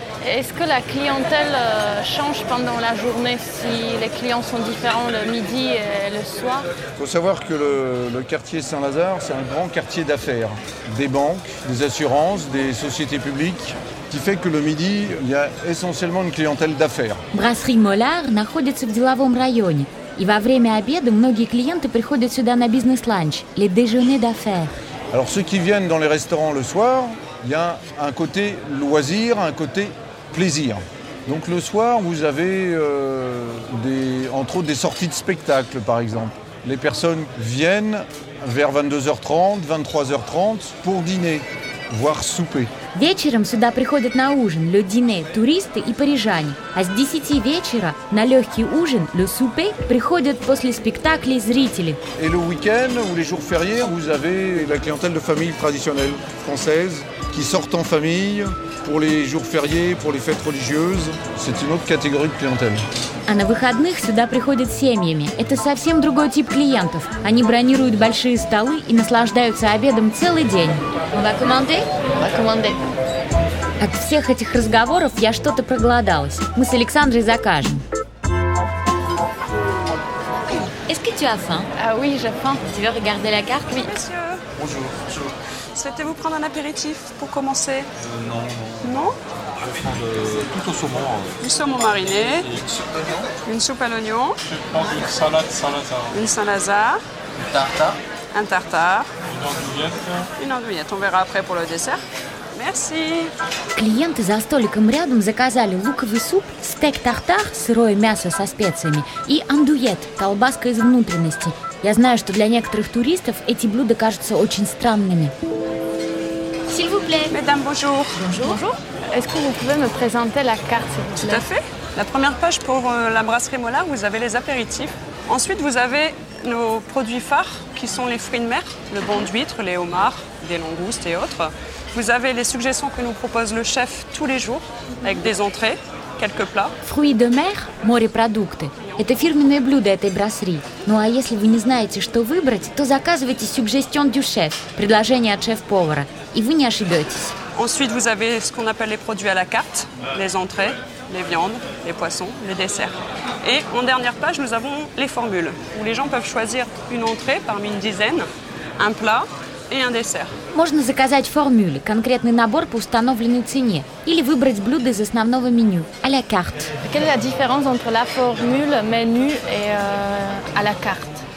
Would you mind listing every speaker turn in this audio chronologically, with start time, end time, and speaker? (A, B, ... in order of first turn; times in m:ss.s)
0:00.2-0:06.7 A
0:07.0-0:17.2 B
0:17.3-0:24.7 C
0:25.1-0:42.7 B
0:42.9-0:52.0 C
0:52.2-1:02.9 B
1:03.3-1:11.9 C
1:12.1-1:12.8 A
1:13.8-1:17.8 C
1:20.9-1:21.7 C
1:21.8-1:22.6 A
1:22.7-1:23.9 C
1:23.7-1:24.4 D
1:24.7-1:25.3 E
1:25.8-1:27.9 D
1:28.0-1:28.8 E
1:28.8-1:29.2 D
1:29.7-1:31.2 E
1:31.4-1:32.5 D
1:32.6-1:33.3 E
1:33.4-1:34.4 D
1:34.5-1:36.1 E
1:36.1-1:37.0 D
1:37.5-1:38.0 E
1:38.3-1:39.1 D
1:39.3-1:40.3 E
1:40.4-1:42.0 D
1:42.5-1:43.3 D
1:43.8-1:55.3 C
1:56.7-1:57.4 C
1:57.3-1:58.2 D
1:58.1-1:58.6 C
1:58.4-2:01.5 A
2:01.2-2:16.8 D
2:16.8-2:27.4 C
2:27.6-2:40.3 D
2:40.5-2:46.7 C
2:46.8-2:51.2 A